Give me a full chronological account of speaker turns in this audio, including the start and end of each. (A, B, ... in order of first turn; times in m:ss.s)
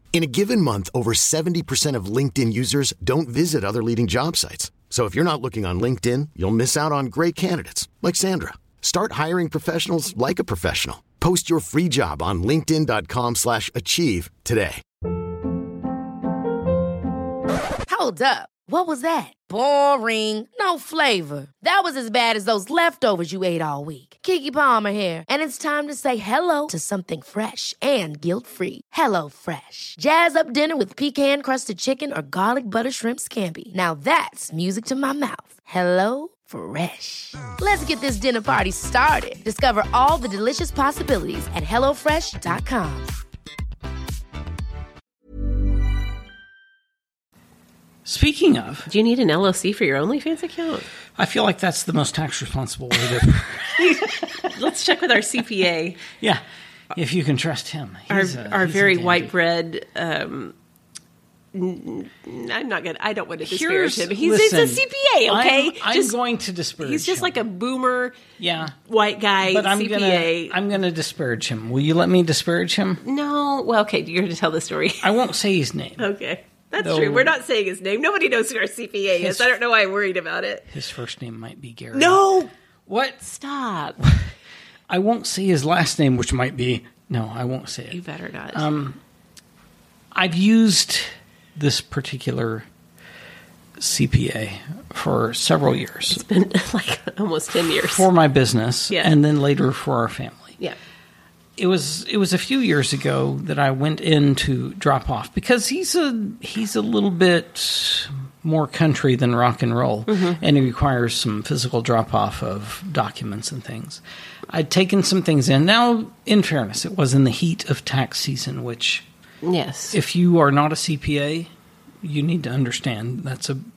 0:00.1-0:14.8 A
0:17.9-0:43.1 B
0:48.0-0:48.9 C
0:48.9-0:50.9 D
0:51.2-0:54.5 C
0:53.8-0:56.0 D
0:56.9-0:59.3 C
0:58.1-1:00.6 D
1:01.5-1:06.2 D
1:03.4-1:07.4 C
1:06.8-1:08.2 D
1:08.4-1:08.8 C
1:08.8-1:10.6 D
1:09.4-1:13.0 C
1:13.0-1:15.1 D
1:15.0-1:16.1 C
1:16.0-1:20.7 D
1:16.8-1:17.4 C
1:19.2-1:19.6 C
1:20.7-1:22.3 C
1:21.9-1:22.5 D
1:22.9-1:23.2 C
1:23.2-1:24.0 D
1:24.0-1:24.3 C
1:24.9-1:28.0 C
1:27.9-1:28.7 D
1:28.5-1:29.0 C
1:30.1-1:32.7 C
1:33.8-1:36.2 C
1:36.1-1:38.1 D
1:37.6-1:40.6 C
1:41.6-1:59.1 C
1:50.1-1:50.4 D
1:59.4-2:00.0 D
1:59.9-2:01.5 C
2:02.0-2:03.6 C